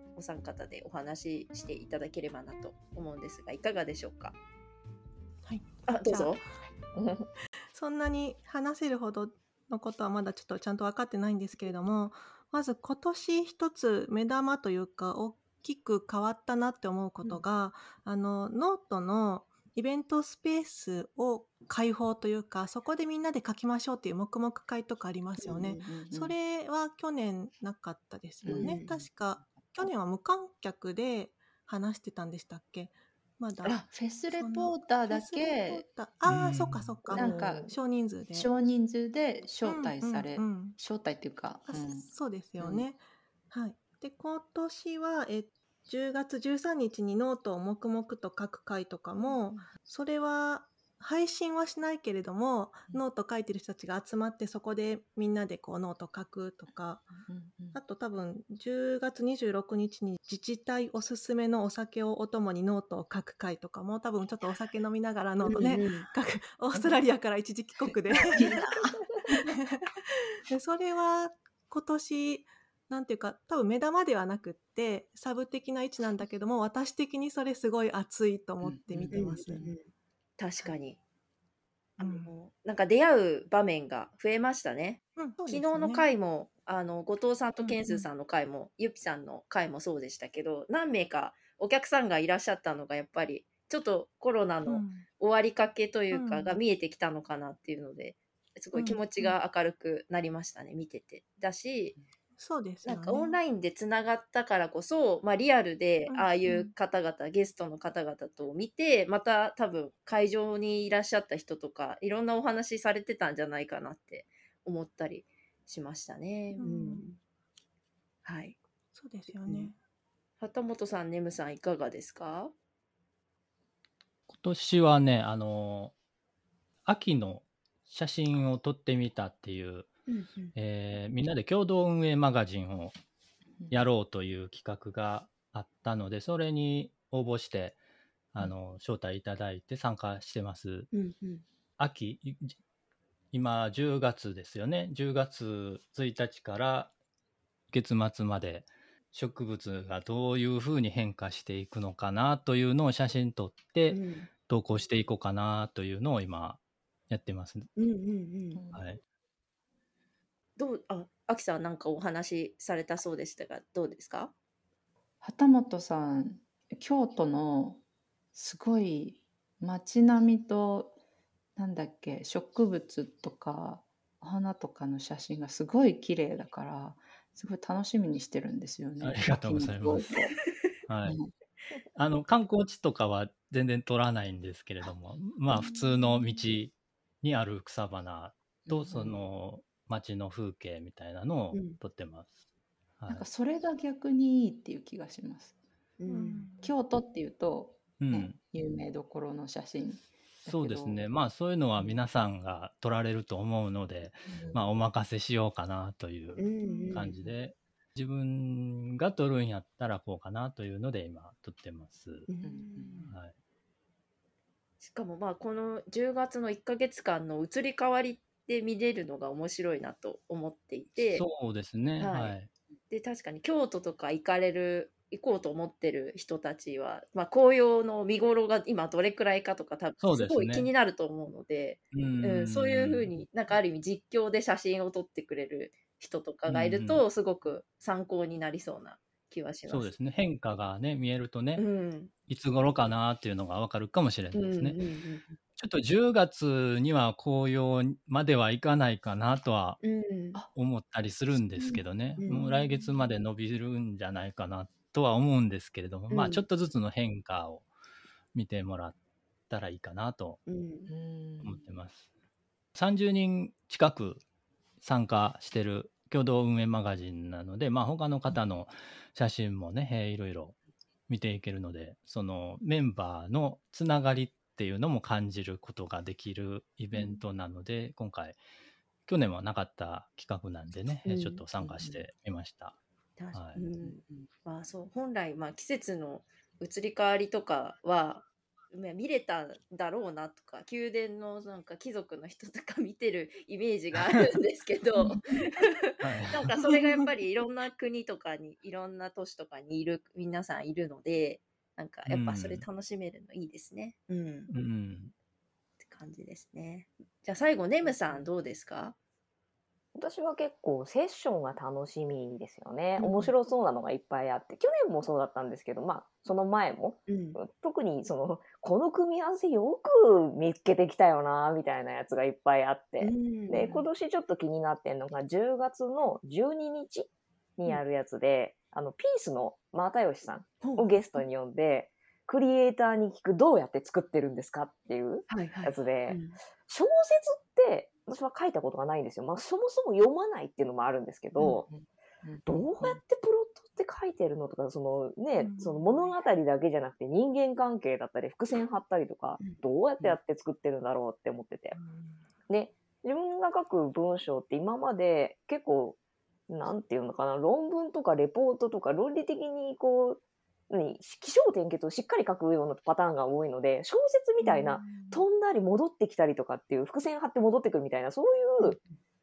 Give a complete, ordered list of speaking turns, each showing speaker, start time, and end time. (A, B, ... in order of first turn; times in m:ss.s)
0:00.1-0:04.4 A
0:05.4-0:06.4 B
0:05.8-0:06.4 A
0:06.9-0:07.3 C
0:07.7-0:38.5 B
0:25.4-0:25.9 A
0:25.8-0:26.3 D
0:28.4-0:28.9 D
0:28.5-0:29.0 A
0:29.4-0:29.9 D
0:33.9-0:35.8 D
0:36.2-0:37.0 E
0:37.1-0:37.8 C
0:37.1-0:37.8 D
0:38.3-0:42.1 D
0:39.6-0:40.8 B
0:41.6-1:08.6 B
0:49.2-0:49.7 D
0:57.2-0:57.8 D
1:05.4-1:05.7 D
1:05.4-1:06.1 A
1:08.3-1:08.7 A
1:08.4-1:09.4 D
1:09.4-1:19.7 B
1:18.6-1:19.5 D
1:19.1-1:19.8 A
1:20.4-1:21.0 A
1:22.0-1:42.0 A
1:22.0-1:22.3 B
1:25.2-1:26.1 B
1:27.6-1:28.0 B
1:34.6-1:35.0 B
1:36.1-1:36.6 B
1:38.7-1:39.4 B
1:42.4-1:43.4 B
1:42.8-1:57.2 A
1:46.1-1:46.7 B
1:56.6-1:57.0 B
1:58.2-1:58.6 A
1:58.9-1:59.8 B
1:59.4-1:59.7 A
2:00.4-2:02.5 A
2:04.3-2:05.9 E
2:06.8-2:09.9 E
2:10.1-2:10.5 A
2:10.5-2:12.9 E
2:13.7-2:17.8 E
2:18.3-2:20.9 E
2:20.9-2:21.4 A
2:21.8-2:22.6 E
2:23.3-2:26.9 E
2:27.7-2:37.7 E
2:33.9-2:34.3 A
2:37.8-2:38.6 A
2:38.5-2:38.8 D
2:38.7-2:39.0 E
2:40.6-2:44.3 A
2:45.2-2:47.8 D
2:48.3-2:50.9 D
2:51.6-3:00.3 D
2:59.0-3:00.2 E
3:00.9-3:01.2 E
3:01.0-3:01.3 D
3:01.9-3:12.3 E
3:08.6-3:09.2 D
3:13.0-3:13.2 E
3:13.1-3:15.5 D
3:16.0-3:16.4 A
3:16.1-3:16.7 B
3:16.6-3:21.1 D
3:18.0-3:18.4 E
3:20.4-3:32.3 E
3:24.3-3:24.6 D
3:26.4-3:27.2 A
3:26.6-3:27.0 B
3:32.3-3:33.1 A
3:32.4-3:33.1 D
3:33.1-3:33.3 E
3:34.8-3:41.2 A
3:41.1-3:42.5 E
3:42.0-3:42.4 A
3:42.9-3:59.9 A
3:50.0-3:50.7 E
3:51.9-3:53.1 E
3:56.5-3:57.0 E
3:59.7-4:01.6 E
4:01.6-4:02.1 A
4:02.3-4:04.8 E
4:04.3-4:05.3 A
4:05.6-4:09.8 E
4:09.8-4:10.4 A
4:10.5-4:17.7 E
4:11.6-4:12.5 A
4:16.1-4:16.4 A
4:18.3-4:19.0 E
4:19.5-4:20.4 E
4:20.5-4:20.9 A
4:20.9-4:21.7 D
4:21.4-4:22.1 E
4:22.7-4:24.2 E
4:24.8-4:38.4 E
4:39.1-4:42.8 E
4:41.0-4:41.4 A
4:41.6-4:42.0 D
4:43.2-5:04.5 A
4:43.3-4:43.6 E
4:43.8-4:44.3 D
4:56.0-4:56.5 E
5:02.0-5:02.6 E
5:04.5-5:05.1 E
5:05.8-5:08.9 A
5:09.9-5:41.7 C
5:13.0-5:13.3 A
5:17.1-5:17.4 A
5:23.0-5:23.9 A
5:30.6-5:31.2 A
5:35.3-5:36.4 A
5:41.4-5:43.0 D
5:42.4-5:51.8 C
5:45.4-5:46.1 B
5:51.8-5:52.2 B
5:52.5-5:56.0 C
5:56.5-6:08.8 C
6:04.4-6:05.2 B
6:08.6-6:08.9 A